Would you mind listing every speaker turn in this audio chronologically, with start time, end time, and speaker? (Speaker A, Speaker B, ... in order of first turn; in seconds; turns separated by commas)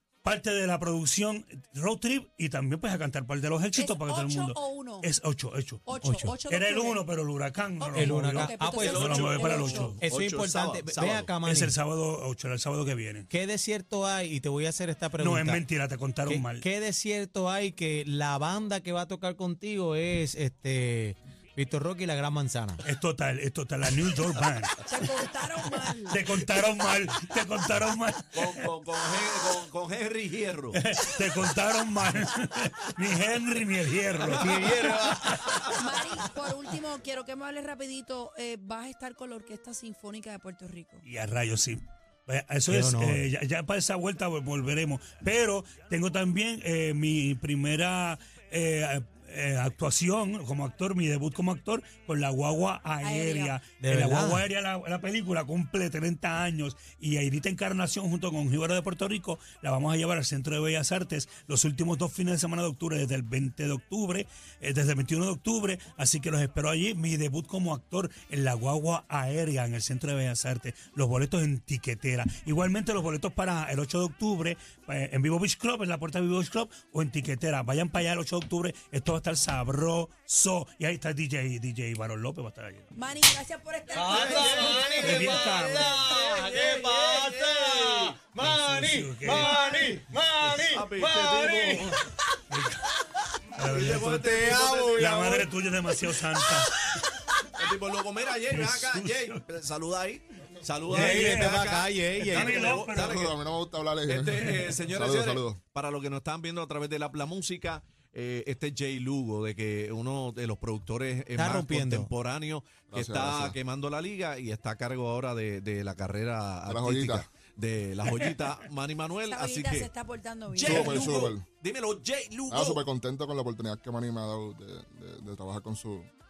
Speaker A: 0.2-6.0, Speaker B: 3.7-5.1, Speaker B: 5.8-7.0, Speaker C: 6.0-6.4, Speaker A: 6.5-10.0, Speaker B: 7.8-10.0, Speaker C: 7.9-9.0, Speaker D: 8.8-11.3, Speaker C: 9.9-11.8, Speaker A: 11.3-13.3, Speaker C: 13.3-15.6, Speaker A: 15.2-16.6, Speaker C: 16.2-22.8, Speaker A: 22.8-25.0, Speaker B: 24.9-26.2, Speaker A: 26.1-28.7, Speaker D: 28.3-30.8, Speaker A: 30.7-35.7, Speaker D: 34.2-36.3, Speaker C: 34.4-35.5, Speaker B: 35.7-41.0, Speaker A: 41.0-82.9, Speaker C: 42.7-43.3, Speaker B: 53.0-53.6, Speaker C: 53.7-54.5, Speaker B: 82.9-85.8, Speaker C: 83.9-92.0, Speaker D: 84.0-88.2, Speaker A: 85.0-85.9, Speaker A: 88.3-89.8, Speaker D: 89.2-89.7, Speaker D: 90.4-92.0, Speaker A: 92.5-92.9, Speaker A: 93.5-96.7, Speaker D: 93.6-95.1, Speaker C: 94.2-97.0, Speaker D: 97.5-103.4, Speaker A: 98.5-99.4, Speaker A: 100.9-103.3, Speaker C: 100.9-102.8, Speaker E: 102.6-105.6, Speaker D: 104.1-119.9, Speaker C: 111.3-112.1, Speaker E: 112.9-113.6, Speaker E: 116.7-117.3, Speaker B: 119.2-120.9, Speaker D: 120.5-122.8, Speaker E: 120.6-121.5, Speaker E: 122.5-126.1